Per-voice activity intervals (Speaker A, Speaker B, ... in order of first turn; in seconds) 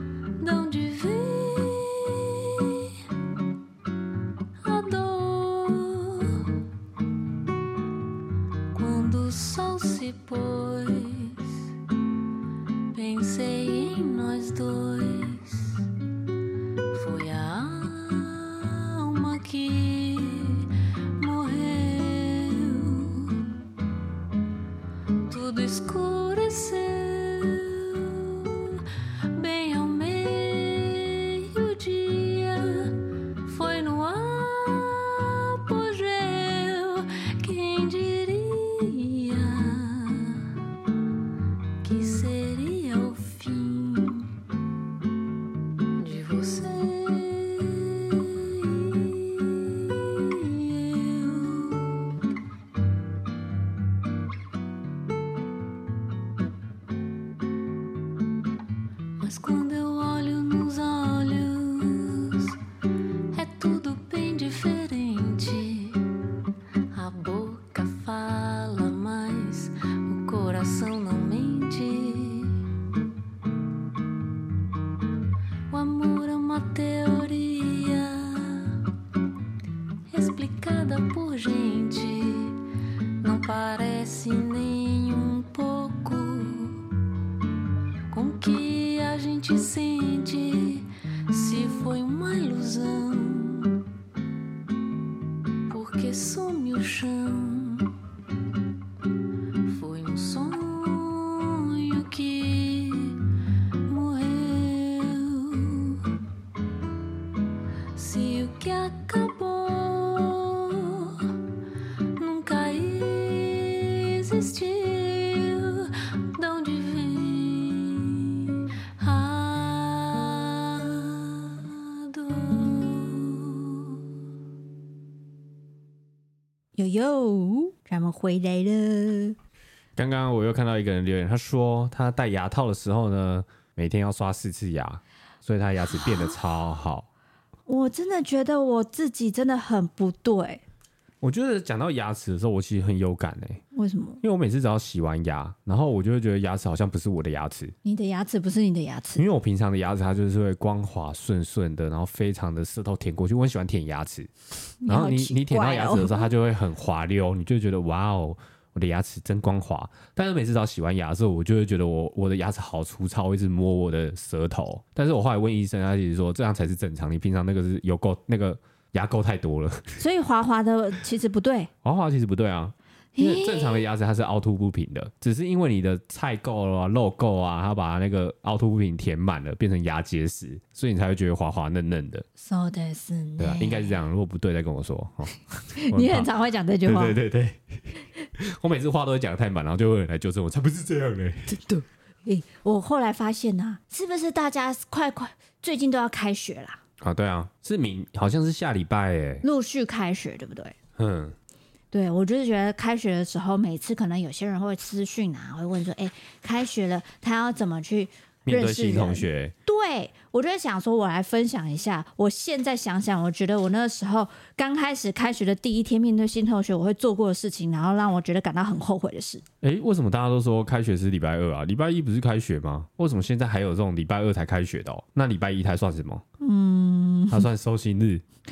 Speaker A: 0.4-3.0, 4.6-6.6, 8.7-11.6, 12.9-15.9, 16.9-23.5, 25.3-40.5, 41.8-44.3, 46.0-52.0, 59.2-62.6, 63.3-66.0, 66.9-72.7, 75.7-78.8, 80.1-82.6, 83.2-86.9, 88.1-93.8, 95.7-97.9, 99.7-103.2, 103.9-106.1, 108.0-111.4, 112.2-124.0
Speaker B: 126.8-129.4, 137.7-140.6, 143.7-144.2, 147.8-149.2, 154.8-156.3, 170.0-171.7, 173.2-173.8, 182.4-183.9, 185.8-187.2, 191.5-196.8, 199.4-200.8, 201.9-219.4, 226.4-227.5
Speaker C: 130.0-137.1, 141.2-143.6, 144.2-147.7, 149.2-154.3, 154.9-170.0, 171.8-182.3, 183.4-186.3, 186.8-187.6, 188.4-191.5, 197.0-199.4, 201.0-201.3, 208.5-209.5, 219.6-226.2, 227.3-228.2